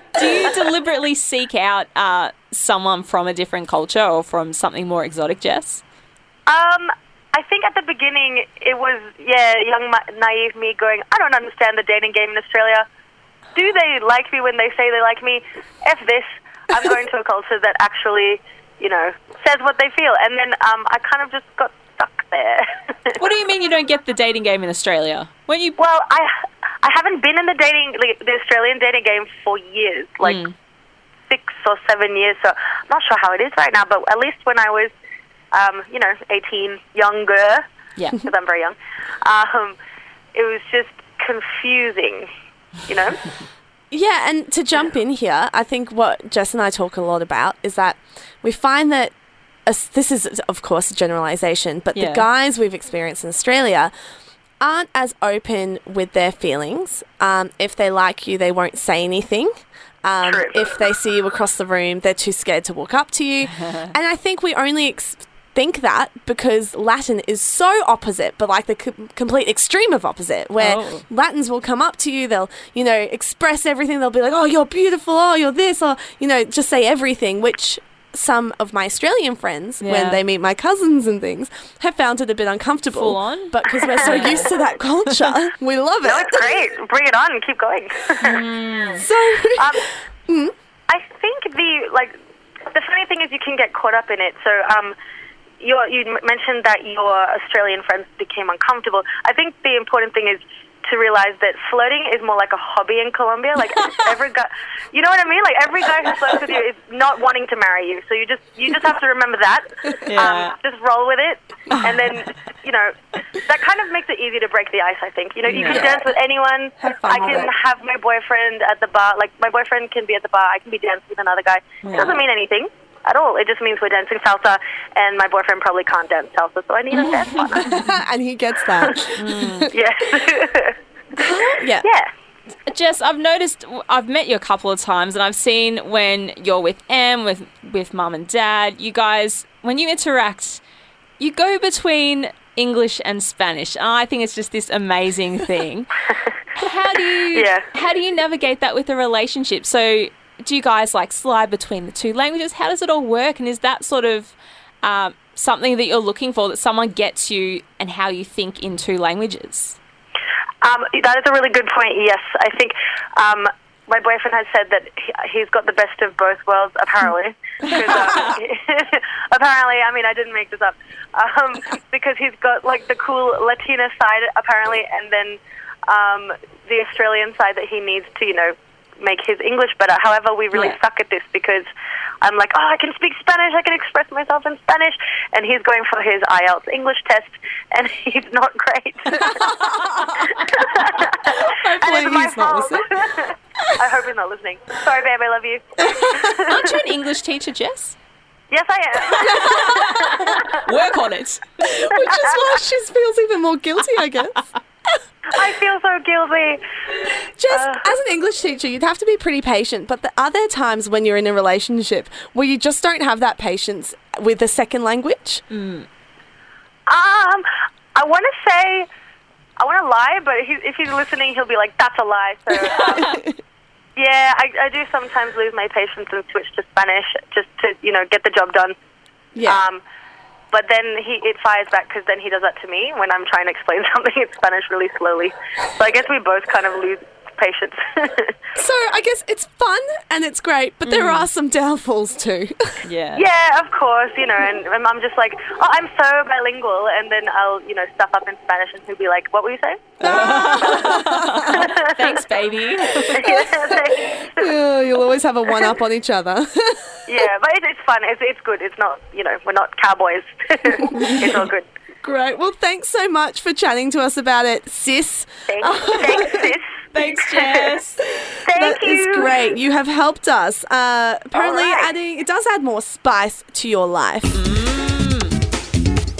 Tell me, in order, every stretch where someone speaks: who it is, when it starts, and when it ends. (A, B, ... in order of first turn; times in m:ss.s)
0:00.2-0:05.8 A
0:06.5-0:12.8 B
0:13.5-0:23.2 B
0:23.2-0:25.8 A
0:25.8-0:30.4 B
0:30.2-0:30.5 A
0:31.3-0:34.9 B
0:35.5-0:37.6 B
0:38.0-0:38.2 A
0:38.2-0:39.8 B
0:40.3-0:42.3 B
0:42.8-0:43.2 B
0:43.9-0:49.1 C
0:49.6-0:53.9 C
0:52.0-0:52.2 A
0:54.6-0:59.5 C
1:00.0-1:26.7 C
1:00.2-1:00.7 B
1:10.6-1:11.0 A
1:19.8-1:20.2 A
1:22.9-1:24.5 A
1:24.0-1:24.3 B
1:26.0-1:28.4 B
1:28.2-1:29.0 A
1:29.0-1:30.5 C
1:29.5-1:29.8 B
1:30.9-1:32.1 B
1:32.7-1:34.9 B
1:35.6-2:07.8 B
1:50.0-1:50.5 A
1:55.5-1:55.9 A
1:55.6-1:56.0 C
1:56.8-1:57.5 C
2:01.8-2:02.2 A
2:07.4-2:07.7 A
2:07.5-2:09.7 C
2:09.2-2:09.7 A
2:09.7-2:10.8 B
2:11.2-2:11.8 C
2:11.8-2:12.1 B
2:12.7-2:20.6 A
2:21.2-2:25.9 A
2:26.5-2:39.8 A
2:27.3-2:27.6 B
2:40.6-3:01.7 B
2:47.7-2:48.4 A
3:02.2-3:09.5 B
3:09.2-3:13.0 C
3:10.4-3:16.8 B
3:15.8-3:16.4 C
3:16.3-3:18.0 A
3:18.5-3:20.5 B
3:19.1-3:20.4 C
3:19.1-3:21.6 A
3:21.6-3:24.4 C
3:25.3-3:26.6 B
3:27.4-3:35.4 C
3:27.5-3:27.9 B
3:35.5-3:35.9 A
3:36.9-3:38.9 B
3:39.6-3:43.1 B
3:42.7-3:43.2 A
3:43.0-3:43.3 C
3:44.0-3:48.8 B
3:49.3-3:49.6 C
3:49.4-3:49.8 B
3:50.5-3:58.4 B
3:58.5-4:02.8 C
4:00.8-4:01.3 A
4:02.8-4:03.2 A
4:03.1-4:12.2 B
4:10.0-4:11.7 C
4:10.0-4:13.4 A
4:13.0-4:16.9 C
4:13.1-4:14.5 B
4:17.1-4:21.7 B
4:20.9-4:21.4 C
4:22.0-4:26.5 C
4:25.5-4:27.8 B
4:26.9-4:28.0 A
4:28.2-4:34.4 C
4:28.4-4:29.3 B
4:31.3-4:31.9 B
4:34.3-4:35.4 A